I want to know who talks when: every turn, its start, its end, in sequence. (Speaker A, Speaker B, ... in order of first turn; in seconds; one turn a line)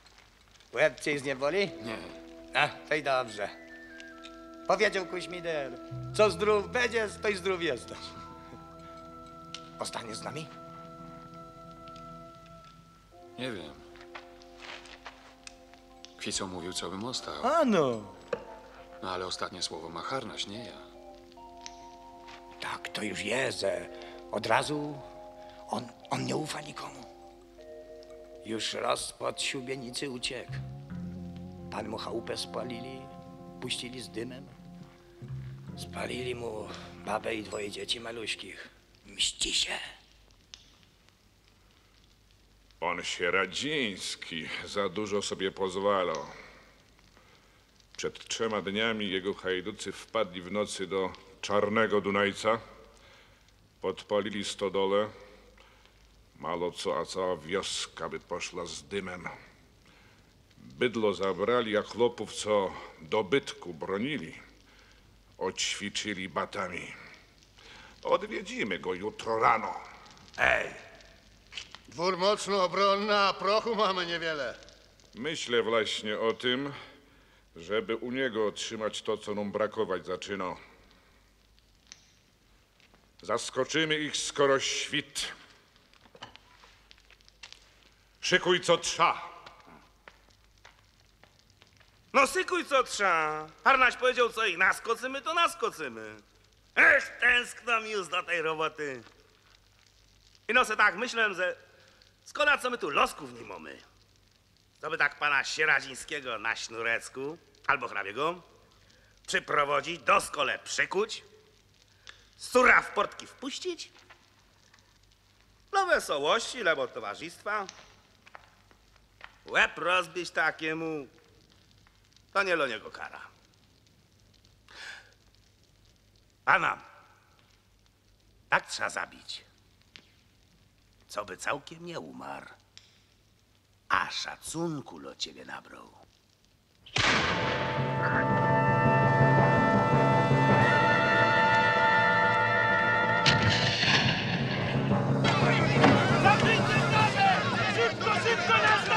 Speaker A: 0.7-1.8
Speaker B: 1.8-2.2
Speaker A: 2.5-3.5
Speaker A: 4.7-8.1
Speaker A: 9.8-10.5
Speaker B: 13.4-13.8
Speaker B: 16.2-17.5
Speaker A: 17.4-18.1
Speaker B: 19.0-20.9
Speaker A: 22.6-25.0
Speaker A: 25.7-27.1
Speaker A: 28.4-30.6
Speaker A: 31.7-34.5
Speaker A: 35.8-39.8
Speaker C: 42.8-46.4
Speaker C: 48.0-52.6
Speaker C: 53.8-55.1
Speaker C: 56.4-59.4
Speaker C: 60.6-64.4
Speaker C: 65.4-67.0
Speaker C: 68.0-69.8
Speaker D: 70.4-70.8
Speaker E: 71.9-74.6
Speaker C: 75.1-76.8
Speaker C: 77.5-80.6
Speaker C: 83.2-85.3
Speaker C: 88.2-89.3
Speaker D: 92.1-96.2
Speaker D: 96.8-99.1
Speaker D: 100.5-101.6
Speaker D: 102.3-103.9
Speaker D: 104.8-108.5
Speaker D: 109.3-111.3
Speaker D: 112.4-113.9
Speaker D: 115.7-117.7
Speaker D: 119.5-121.1
Speaker D: 122.3-123.3
Speaker D: 126.5-126.8
Speaker D: 128.5-129.5
Speaker D: 131.1-132.6
Speaker D: 133.9-136.0